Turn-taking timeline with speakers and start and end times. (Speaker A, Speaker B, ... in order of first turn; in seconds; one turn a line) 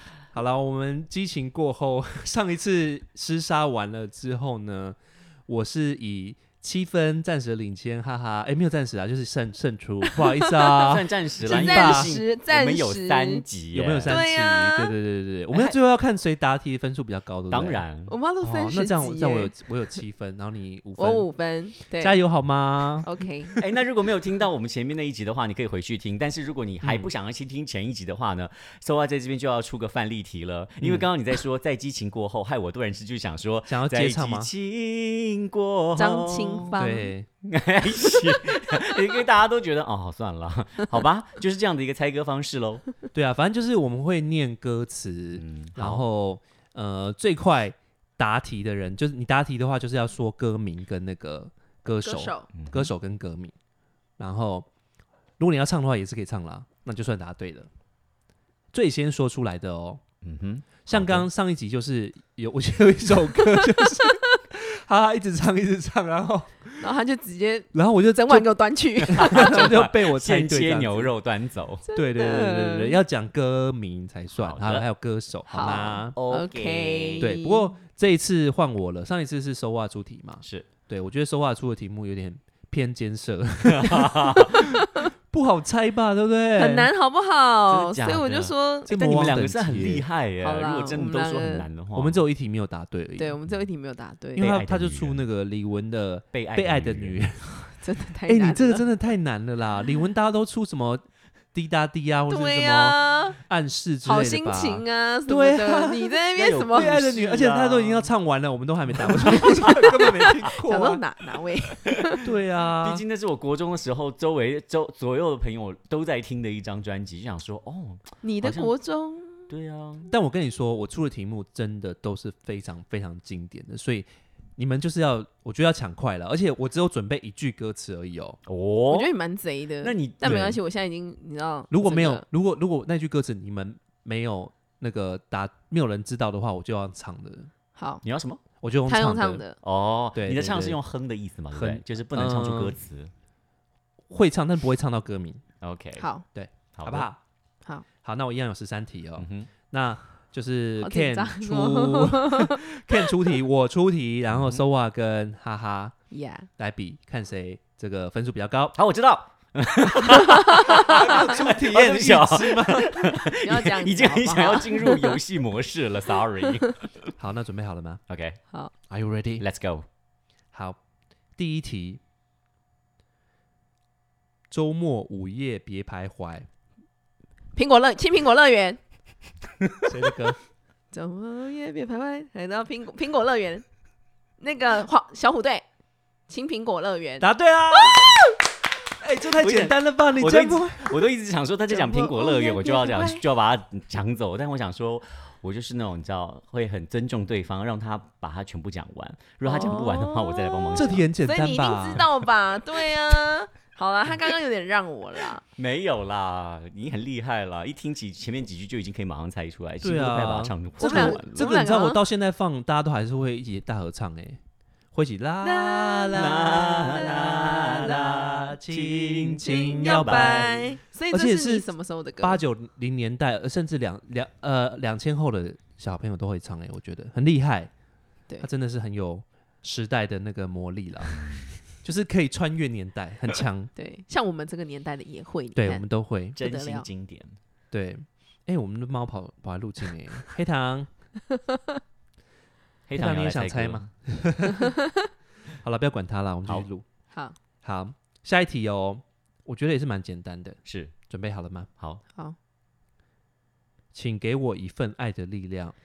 Speaker A: 0.3-12.1
Speaker B: 10.1-10.9
Speaker C: 10.8-14.2
Speaker B: 11.5-13.4
Speaker A: 13.7-17.8
Speaker B: 14.1-14.9
Speaker C: 17.5-18.1
Speaker B: 18.1-19.6
Speaker A: 18.4-21.3
Speaker B: 21.0-22.2
Speaker A: 22.0-23.1
Speaker B: 23.0-23.5
Speaker C: 23.6-36.7
Speaker A: 26.8-27.1
Speaker A: 30.8-31.1
Speaker A: 33.7-34.5
Speaker B: 36.0-37.1
Speaker A: 36.7-37.3
Speaker C: 37.4-42.8
Speaker A: 43.1-53.5
Speaker C: 45.4-46.0
Speaker B: 52.0-52.5
Speaker C: 52.5-52.9
Speaker A: 54.2-54.7
Speaker A: 55.4-57.7
Speaker A: 58.7-60.0
Speaker C: 60.2-61.3
Speaker A: 60.9-66.9
Speaker B: 63.4-64.4
Speaker B: 66.8-69.7
Speaker A: 67.7-71.1
Speaker C: 69.1-71.8
Speaker B: 71.8-73.0
Speaker A: 71.9-76.2
Speaker C: 74.3-74.8
Speaker B: 75.5-77.7
Speaker C: 75.6-77.3
Speaker A: 77.2-84.4
Speaker C: 83.7-84.6
Speaker B: 84.6-85.1
Speaker A: 85.3-86.9
Speaker B: 86.6-88.9
Speaker C: 87.7-92.2
Speaker A: 88.9-90.1
Speaker B: 90.4-91.7
Speaker A: 91.9-93.4
Speaker B: 93.2-94.6
Speaker A: 94.3-97.7
Speaker C: 94.4-95.2
Speaker C: 96.3-97.2
Speaker B: 97.5-98.8
Speaker A: 98.2-111.0
Speaker B: 102.3-103.4
Speaker B: 104.0-107.2
Speaker C: 106.6-108.1
Speaker C: 109.0-110.4
Speaker B: 109.2-112.2
Speaker A: 112.2-113.0
Speaker C: 112.8-118.7
Speaker B: 118.2-119.5
Speaker C: 119.5-120.1
Speaker A: 120.1-128.4
Speaker C: 128.5-129.1
Speaker B: 128.9-132.2
Speaker C: 129.8-130.5
Speaker A: 130.2-130.6
Speaker A: 131.7-137.5
Speaker B: 137.8-138.0
Speaker C: 138.0-138.4
Speaker A: 138.6-139.4
Speaker B: 138.9-139.6
Speaker C: 139.6-143.1
Speaker A: 140.2-140.8
Speaker A: 141.5-142.8
Speaker A: 144.1-145.4
Speaker C: 145.6-146.1
Speaker B: 146.0-146.2
Speaker A: 146.3-147.2
Speaker C: 146.8-147.1
Speaker A: 148.0-156.0
Speaker C: 149.2-149.5
Speaker B: 150.8-153.1
Speaker C: 154.3-154.6
Speaker B: 156.1-156.5
Speaker A: 156.6-158.8
Speaker C: 158.8-166.9
Speaker B: 160.2-161.2
Speaker A: 160.7-163.1
Speaker B: 163.3-165.2
Speaker A: 167.2-168.0
Speaker C: 168.1-168.4
Speaker A: 168.9-169.4
Speaker C: 169.4-169.8
Speaker A: 170.5-170.8
Speaker A: 171.4-172.0
Speaker A: 174.5-176.5
Speaker B: 177.6-178.8
Speaker A: 179.9-180.4
Speaker B: 180.9-183.7
Speaker B: 184.4-185.7
Speaker B: 186.3-188.4
Speaker A: 187.2-188.2
Speaker A: 189.0-191.1
Speaker C: 189.4-201.1
Speaker B: 191.7-193.2
Speaker B: 199.4-205.4
Speaker A: 200.8-202.1
Speaker C: 205.6-211.4
Speaker A: 209.8-214.4
Speaker B: 210.8-212.0
Speaker A: 214.9-221.7
Speaker B: 215.4-218.1
Speaker C: 216.1-220.6
Speaker B: 219.4-222.4
Speaker A: 222.2-227.7
Speaker A: 228.4-233.7
Speaker C: 231.1-231.5
Speaker B: 233.8-235.8
Speaker A: 235.6-236.4
Speaker B: 236.4-236.9
Speaker C: 236.4-237.4
Speaker A: 237.7-240.9
Speaker C: 242.9-243.9
Speaker A: 242.9-244.7
Speaker A: 245.6-246.8
Speaker B: 247.1-247.4
Speaker A: 247.6-251.7
Speaker C: 250.6-250.9
Speaker A: 253.9-255.8